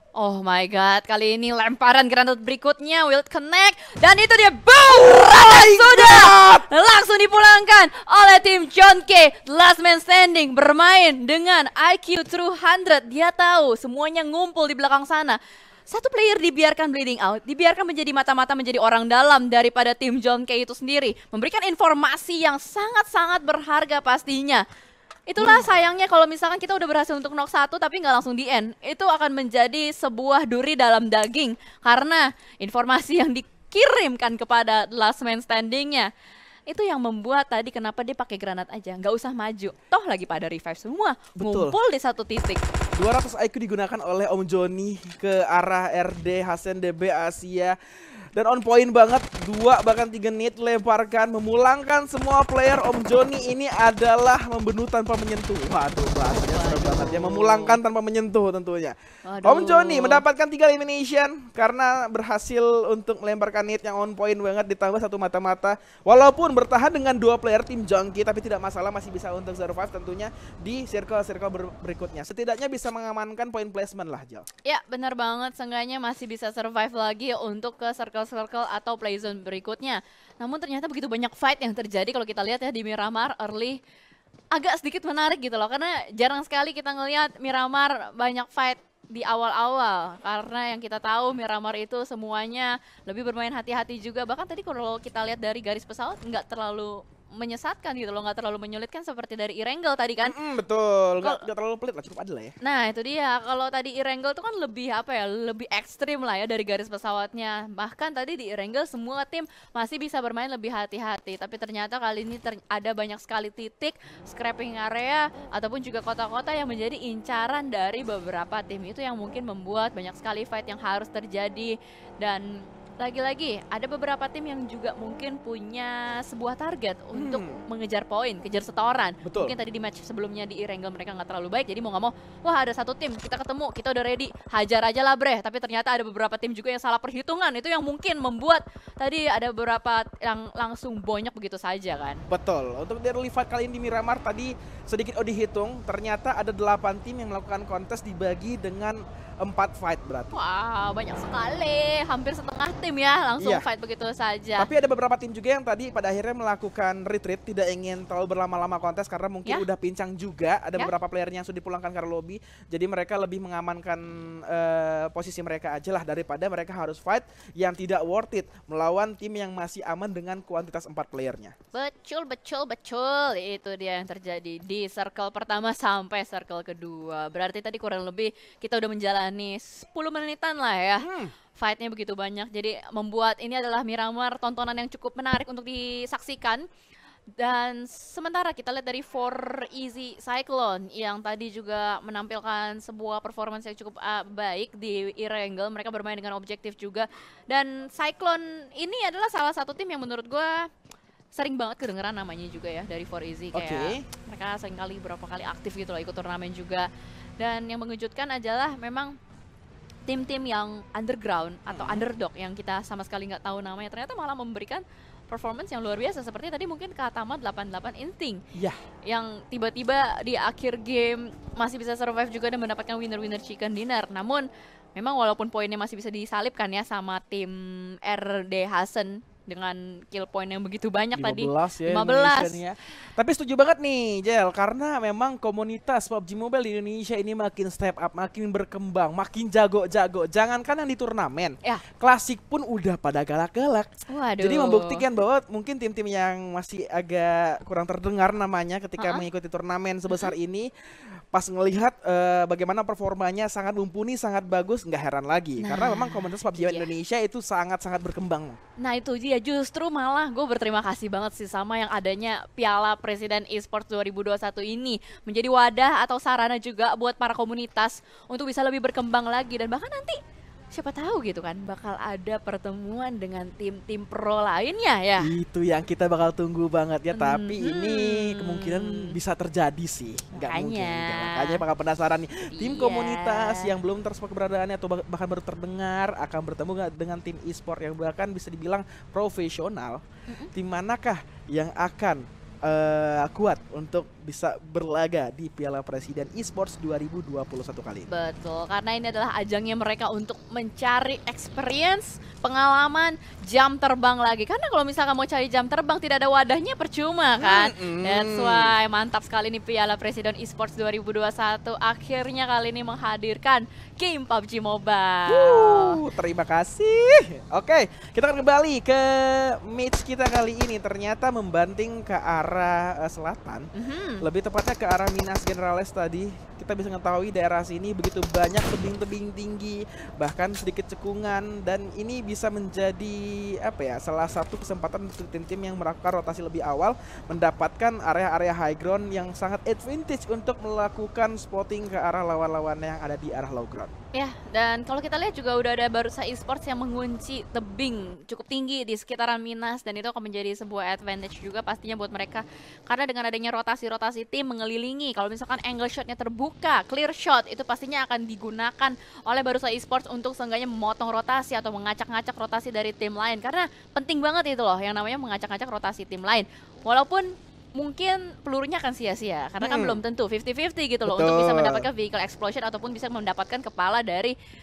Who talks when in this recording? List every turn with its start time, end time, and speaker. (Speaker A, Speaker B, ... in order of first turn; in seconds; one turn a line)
Speaker A: 0.1-24.6
Speaker B: 4.9-6.7
Speaker A: 25.3-36.1
Speaker B: 25.4-25.6
Speaker A: 36.7-42.6
Speaker B: 41.4-41.8
Speaker B: 42.9-47.7
Speaker B: 48.3-74.5
Speaker A: 56.3-57.8
Speaker A: 59.2-60.2
Speaker A: 74.6-83.8
Speaker A: 84.5-100.3
Speaker B: 100.2-102.5
Speaker A: 102.6-142.2
Speaker B: 127.1-127.6
Speaker B: 129.2-129.5
Speaker B: 142.3-150.3
Speaker A: 150.3-154.7
Speaker B: 153.4-153.7
Speaker B: 154.6-171.5
Speaker A: 171.7-186.7
Speaker B: 181.0-181.3
Speaker A: 187.4-200.7
Speaker A: 201.3-206.9
Speaker B: 203.5-204.0
Speaker A: 207.4-209.2
Speaker A: 210.1-218.4
Speaker B: 211.7-212.0
Speaker A: 219.1-232.6
Speaker B: 231.2-250.7
Speaker A: 244.1-245.0
Speaker A: 249.0-249.2
Speaker B: 251.3-258.6
Speaker A: 255.6-256.9
Speaker A: 258.8-270.2
Speaker A: 270.7-275.3
Speaker B: 275.2-290.0
Speaker A: 277.1-279.1
Speaker A: 280.3-281.6
Speaker A: 282.5-283.7
Speaker B: 290.5-298.1
Speaker A: 298.1-316.0
Speaker B: 307.4-308.7
Speaker B: 315.3-323.7
Speaker A: 323.7-324.2
Speaker B: 324.2-343.9
Speaker A: 344.1-374.3
Speaker B: 369.6-370.0
Speaker B: 371.1-371.9